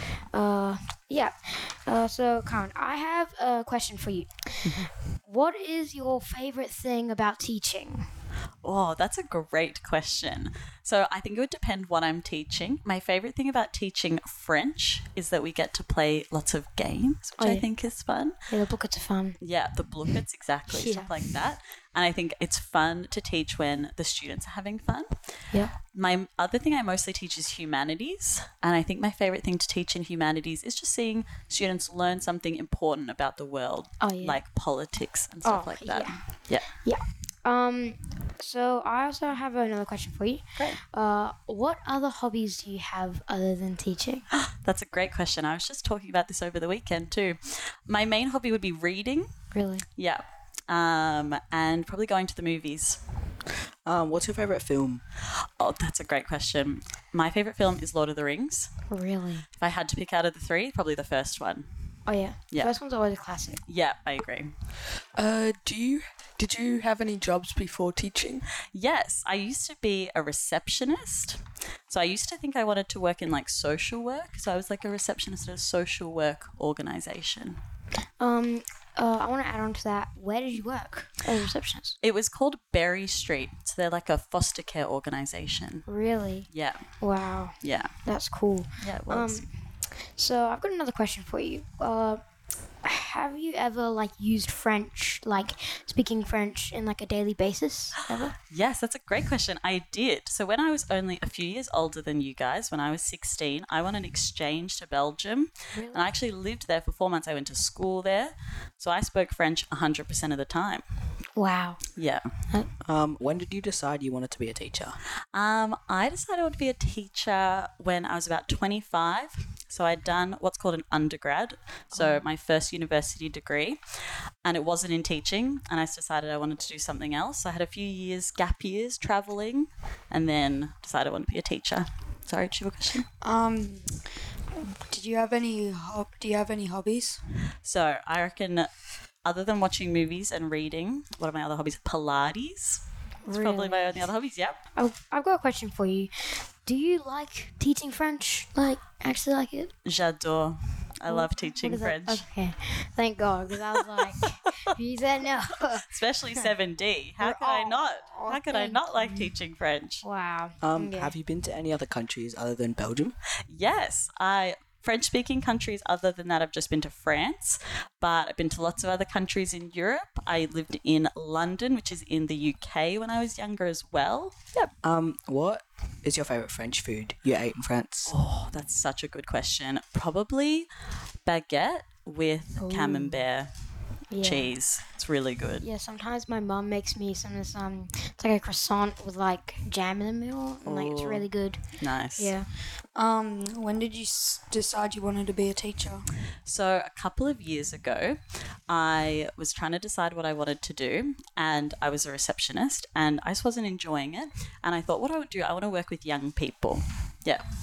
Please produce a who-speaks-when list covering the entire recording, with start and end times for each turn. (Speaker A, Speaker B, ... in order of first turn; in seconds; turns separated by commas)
Speaker A: 0.3-8.1, Speaker B: 4.6-4.9, Speaker B: 8.6-18.4, Speaker A: 17.4-17.7, Speaker A: 18.5-19.4, Speaker B: 19.4-25.1, Speaker A: 20.7-21.1, Speaker B: 25.9-36.7, Speaker A: 34.0-34.4, Speaker A: 35.5-44.3, Speaker B: 44.3-49.3, Speaker A: 49.5-49.9, Speaker B: 50.0-53.0, Speaker C: 53.9-55.0, Speaker B: 55.3-58.7, Speaker A: 58.9-59.5, Speaker B: 59.6-61.7, Speaker A: 62.1-63.6, Speaker B: 63.7-64.5, Speaker D: 65.2-68.5, Speaker B: 68.7-77.6, Speaker A: 78.2-81.7, Speaker B: 81.3-85.8, Speaker A: 85.9-86.5, Speaker B: 86.5-86.9, Speaker A: 87.0-89.5, Speaker B: 87.6-87.9, Speaker B: 88.8-89.5, Speaker A: 90.1-92.2, Speaker A: 92.8-98.3, Speaker B: 98.5-110.8, Speaker A: 105.8-106.1, Speaker A: 111.4-111.8, Speaker B: 112.0-112.2, Speaker C: 112.8-115.0, Speaker B: 115.3-133.1, Speaker A: 121.9-122.2, Speaker E: 133.2-134.0, Speaker E: 134.6-137.2, Speaker B: 137.6-138.7, Speaker B: 139.2-144.6, Speaker A: 143.2-144.1, Speaker A: 144.8-149.7, Speaker B: 149.9-152.3, Speaker A: 151.1-156.5, Speaker B: 155.9-160.0, Speaker A: 157.2-159.3, Speaker A: 160.0-161.2, Speaker C: 160.6-163.1, Speaker B: 163.5-174.7, Speaker C: 174.8-178.1, Speaker B: 178.1-180.7, Speaker B: 181.2-183.5, Speaker A: 182.6-183.2, Speaker A: 184.1-184.5, Speaker B: 184.2-185.7, Speaker A: 185.6-191.6, Speaker B: 190.6-192.3, Speaker A: 192.2-192.5, Speaker E: 192.9-196.1, Speaker B: 196.4-207.4